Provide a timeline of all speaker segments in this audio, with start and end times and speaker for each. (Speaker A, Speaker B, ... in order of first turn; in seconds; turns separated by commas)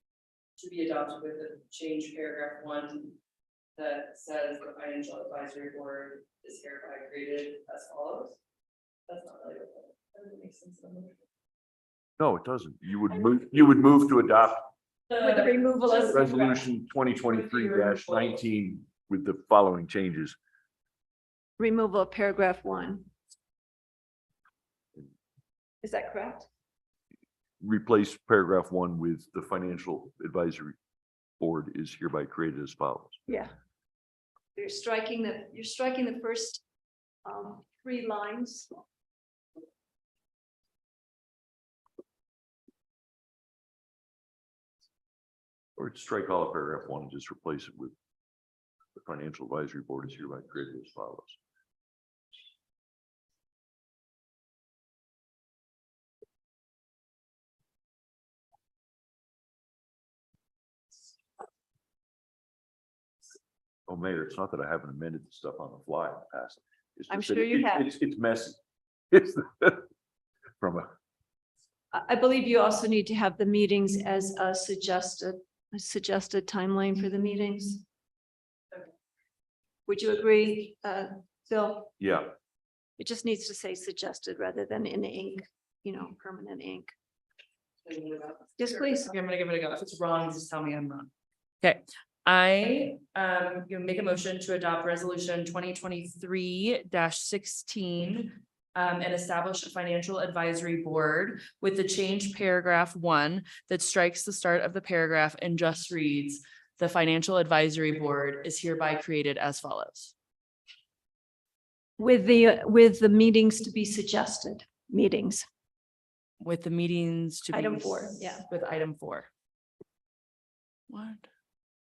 Speaker A: 0.6-3.1, Speaker A: 3.8-8.4, Speaker A: 9.1-11.2, Speaker B: 12.2-14.7, Speaker A: 15.1-18.4, Speaker C: 15.2-16.1, Speaker B: 15.9-20.4, Speaker C: 21.6-23.0, Speaker C: 25.8-26.4, Speaker B: 27.6-30.8, Speaker B: 31.4-33.2, Speaker C: 34.6-36.6, Speaker C: 37.3-38.6, Speaker B: 45.8-47.9, Speaker B: 49.0-51.4, Speaker B: 63.9-68.6, Speaker C: 67.1-67.8, Speaker B: 69.1-69.8, Speaker B: 70.6-70.9, Speaker C: 72.0-77.8, Speaker C: 79.9-81.9, Speaker B: 82.0-82.3, Speaker C: 83.0-86.8, Speaker A: 87.9-91.1, Speaker C: 88.6-89.0, Speaker A: 91.6-110.1, Speaker C: 112.0-115.4, Speaker A: 116.4-119.3, Speaker C: 117.5-118.4, Speaker A: 120.9-121.3